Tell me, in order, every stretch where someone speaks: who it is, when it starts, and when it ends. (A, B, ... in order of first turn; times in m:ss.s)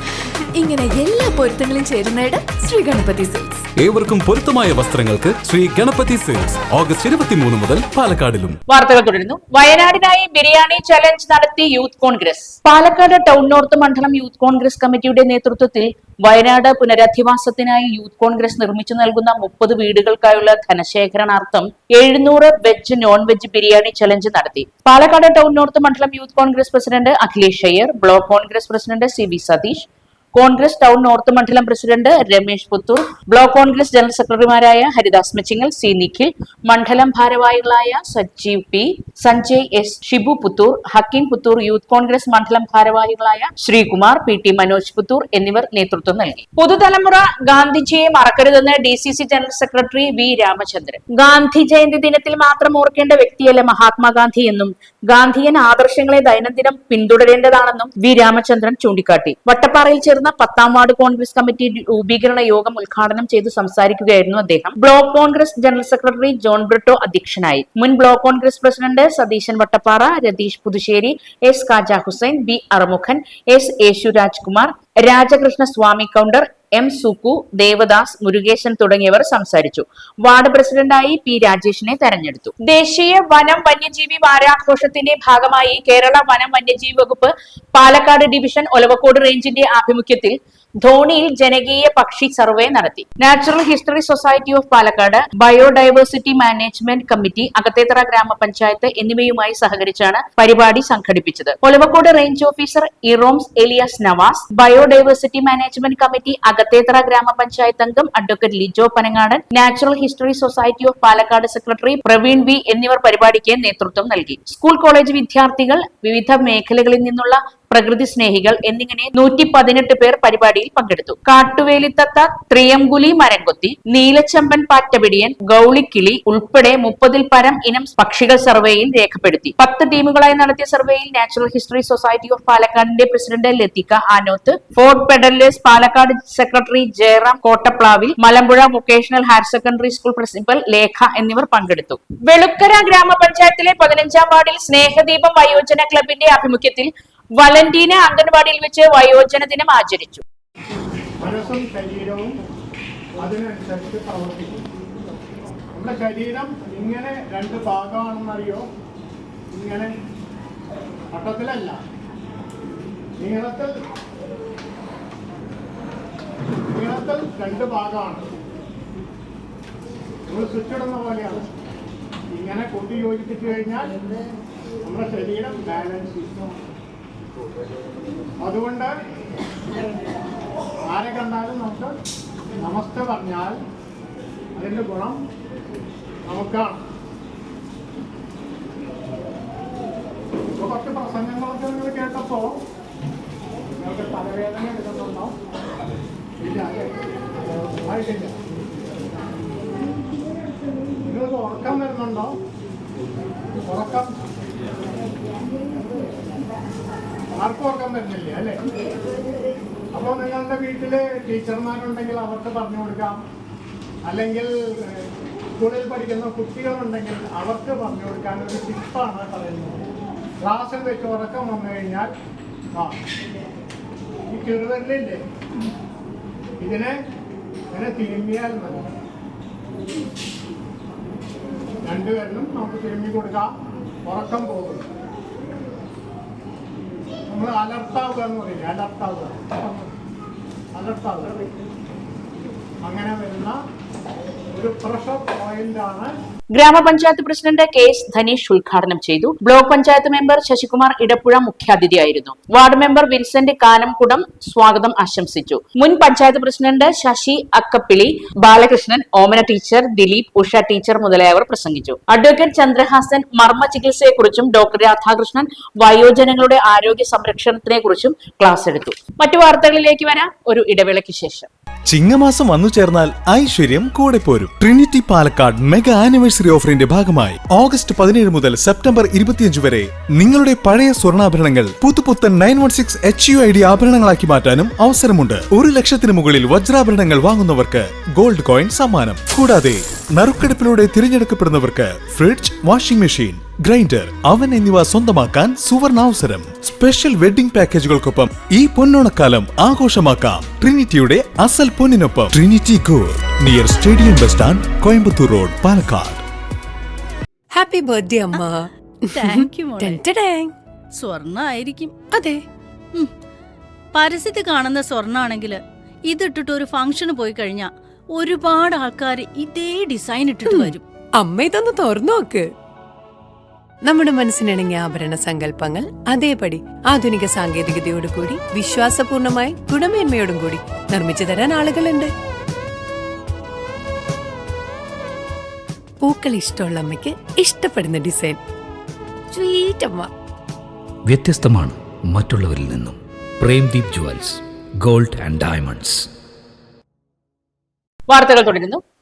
0:00.6-0:03.6 A
0:03.8-0:08.6 B
0:08.7-2:30.2 C
2:31.2-2:32.4 D
2:33.2-2:34.6 D
2:35.8-2:38.6 D
2:39.5-2:39.9 D
2:41.1-2:41.8 D
2:43.2-2:43.8 D
2:46.7-2:48.3 D
2:50.3-2:51.5 D
2:52.3-2:54.0 D
2:54.8-2:56.5 D
2:58.4-2:58.9 D
3:00.9-3:01.9 D
3:02.6-3:03.6 D
3:04.6-3:05.2 D
3:06.3-3:06.8 D
3:10.6-3:12.6 D
3:13.8-3:15.3 D
3:16.4-3:18.4 D
3:21.0-3:22.4 D
3:23.7-3:24.2 D
3:27.4-3:28.6 D
3:29.9-3:33.2 D
3:34.1-3:35.1 D
3:35.6-3:39.8 D
3:40.4-3:42.1 D
3:44.3-3:45.2 D
3:46.6-3:47.0 D
3:47.7-3:48.9 D
3:51.8-3:53.5 D
3:54.1-3:54.9 D
3:57.3-3:59.9 D
4:00.8-4:01.5 D
4:02.8-4:03.6 D
4:04.5-4:06.2 D
4:06.5-4:31.5 C
4:31.9-5:06.2 E
5:07.5-5:10.5 F
5:09.2-5:10.0 G
5:11.0-5:12.1 G
5:12.1-5:12.4 F
5:13.9-5:20.8 G
5:20.5-5:22.5 F
5:23.8-5:32.1 F
5:36.0-5:38.4 F
5:39.3-5:40.1 F
5:41.1-5:46.1 H
5:48.1-5:48.8 C